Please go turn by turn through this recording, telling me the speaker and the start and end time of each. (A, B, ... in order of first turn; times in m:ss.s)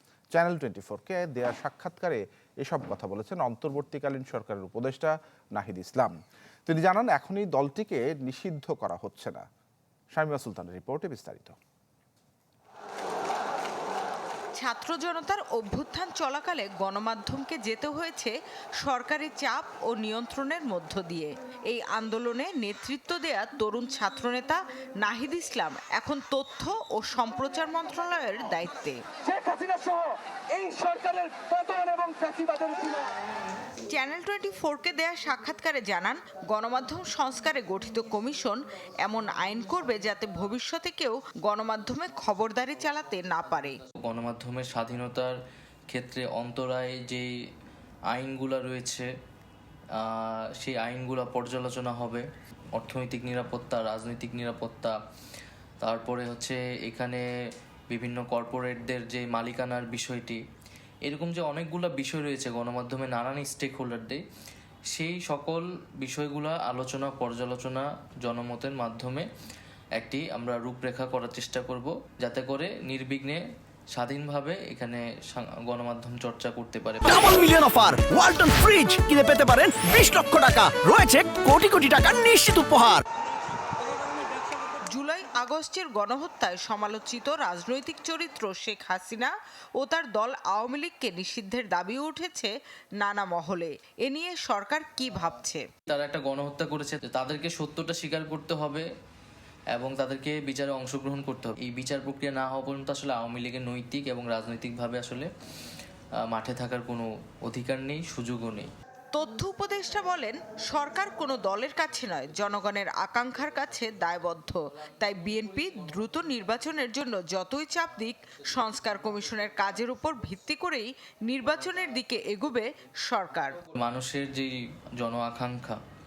0:00.3-0:06.1 A
0:06.7-0:09.4 A
0:10.1-0:11.6 A
0:14.6-0:29.0 B
0:29.2-0:33.1 C
0:33.9-0:43.8 B
0:44.0-0:45.4 D
0:45.9-0:47.3 D
0:48.1-0:49.1 D
0:49.9-0:55.0 D
0:55.8-0:57.2 D
0:57.9-1:00.4 D
1:01.0-1:04.2 D
1:04.9-1:09.3 D
1:10.0-1:17.1 D
1:17.0-1:23.0 E
1:24.9-1:35.6 B
1:35.9-1:38.8 D
1:39.7-1:45.3 D
1:46.2-1:48.7 D
1:49.1-2:03.6 B
2:03.7-2:05.8 D